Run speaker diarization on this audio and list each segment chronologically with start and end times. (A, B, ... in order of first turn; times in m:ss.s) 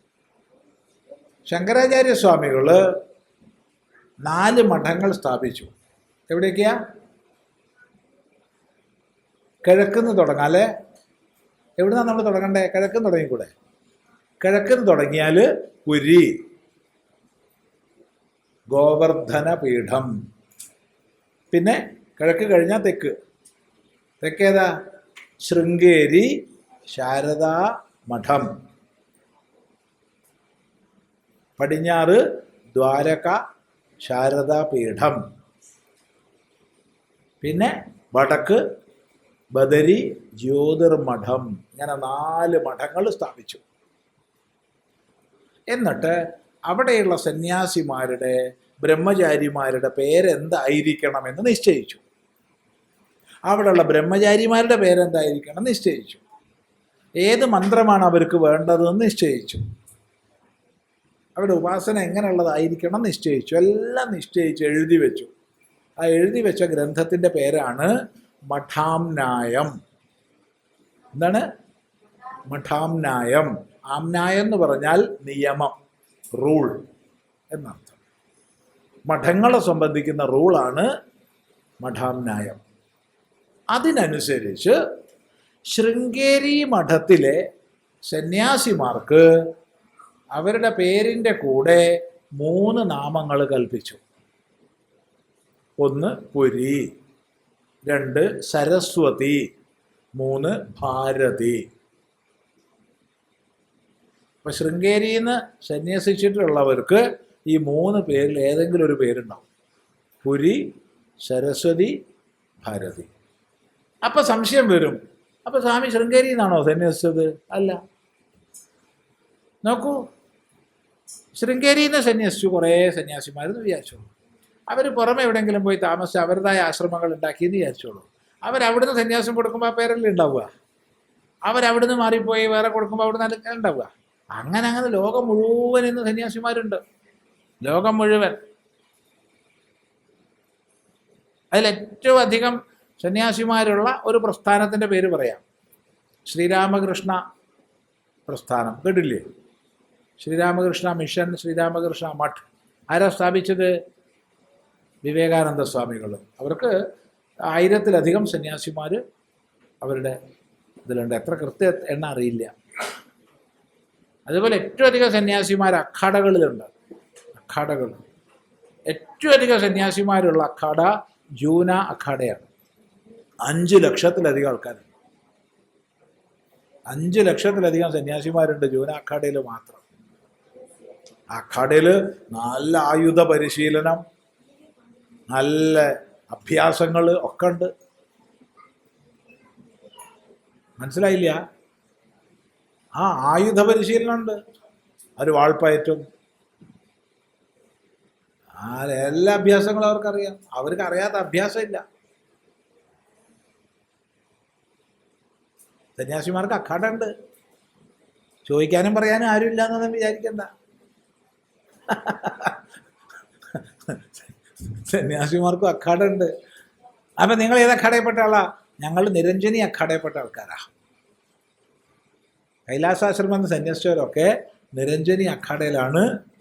0:01.5-0:02.8 A
0:04.2-0:05.7 A
0:06.3-0:06.8 A
0:09.6-0:10.7 A
0:11.8-0:13.5 A
0:14.4-0:16.4 A
0:18.7-0:20.1 A
0:21.5-0:23.1 A
0:24.2-0:24.7 A
0:25.4-0:26.3 A
0:26.9-0:28.5 A
0:31.6-0:32.2 A
0:32.8-0:33.4 A
0:34.0-0:35.2 A
0:37.4-0:38.6 A
0:39.5-0:43.6 A
0:45.7-0:52.0 A
0:53.5-0:56.2 A
0:57.2-0:59.6 A
1:01.4-1:05.3 A
1:06.0-1:07.9 A
1:08.5-1:09.7 A
1:11.2-1:11.5 A
1:12.5-1:15.8 A
1:16.4-1:16.8 A
1:17.5-1:18.0 A
1:19.1-1:20.9 A
1:21.8-1:22.6 A
1:23.7-1:24.8 A
1:25.7-1:27.4 A
1:28.1-1:29.3 A
1:30.3-1:34.0 A
1:35.8-1:36.9 A
1:37.8-1:39.5 A
1:40.2-1:41.7 A
1:44.4-1:49.5 A
1:50.2-1:50.7 A
1:51.2-1:52.0 A
1:52.6-1:53.1 A
1:54.0-1:57.8 A
1:59.6-2:00.0 A
2:01.3-2:04.1 A
2:04.7-2:10.5 A
2:11.5-2:16.8 A
2:17.6-2:18.4 A
2:21.5-2:25.4 A
2:26.3-2:27.2 A
2:28.3-2:29.2 A
2:30.2-2:33.7 A
2:35.0-2:36.8 A
2:37.5-2:39.0 A
2:39.8-2:40.2 A
2:40.8-2:42.5 A
2:44.3-2:46.7 A
2:47.4-2:48.0 A
2:48.9-2:52.5 A
2:53.4-2:54.8 A
2:56.9-2:59.8 A
3:01.3-3:04.0 A
3:05.3-3:07.7 A
3:10.8-3:11.4 A
3:13.0-3:14.4 A
3:15.2-3:16.0 A
3:18.6-3:21.8 A
3:26.0-3:27.1 A
3:28.5-3:30.5 A
3:31.9-3:32.6 A
3:33.5-3:34.0 A
3:34.7-3:36.3 A
3:37.2-3:40.7 A
3:42.7-3:46.1 A